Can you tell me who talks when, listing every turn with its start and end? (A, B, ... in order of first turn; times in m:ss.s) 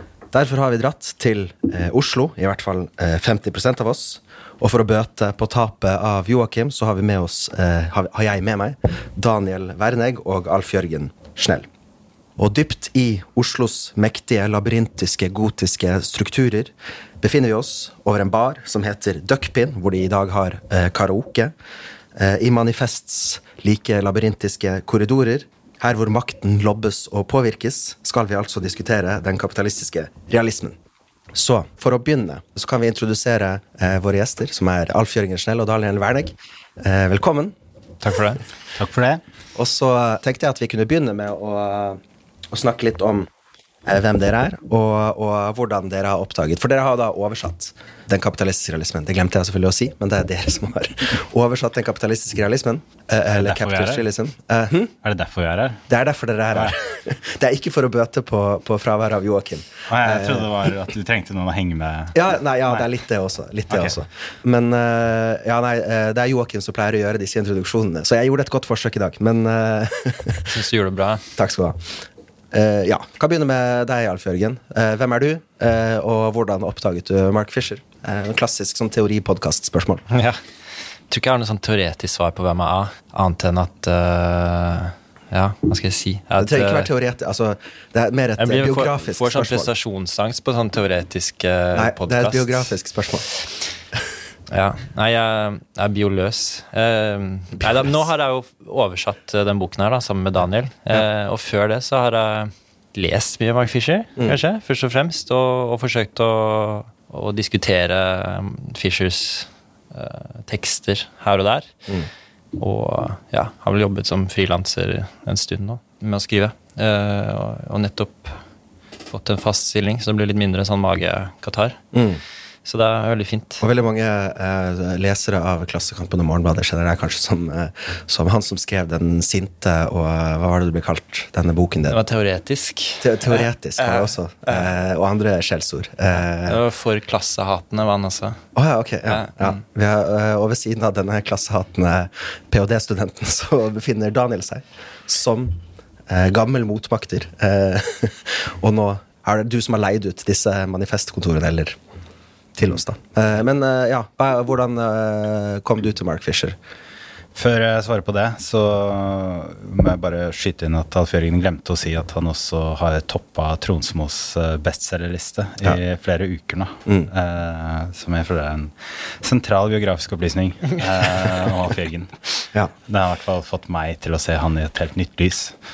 0:00.3-0:11.7 A
0:12.4-0:21.5 A
0:22.1-0:30.8 A
0:31.3-0:37.6 A
0:38.0-0:38.4 B
0:38.8-0:39.2 C
0:39.5-0:42.0 A
0:42.5-0:43.3 A
0:43.8-0:54.9 A
0:53.4-0:54.0 C
0:55.0-0:55.8 C
0:55.9-1:00.5 A
0:59.9-1:02.8 C
1:02.1-1:10.5 A
1:10.5-1:11.2 B
1:11.4-1:11.8 A
1:12.5-1:20.0 A
1:20.1-1:20.4 B
1:21.1-1:26.9 B
1:26.4-1:29.7 A
1:28.4-1:32.7 B
1:31.7-1:33.2 A
1:34.5-1:51.7 B
1:52.6-1:58.4 B
1:59.1-2:01.8 B
2:01.9-2:02.2 A
2:02.6-2:03.6 B
2:03.6-2:12.0 A
2:11.9-2:14.7 B
2:13.0-2:16.6 A
2:16.4-2:18.4 B
2:18.5-2:25.6 A
2:19.1-2:19.6 B
2:26.1-2:31.8 A
2:32.6-2:36.6 A
2:37.3-2:52.3 C
2:52.9-2:55.6 C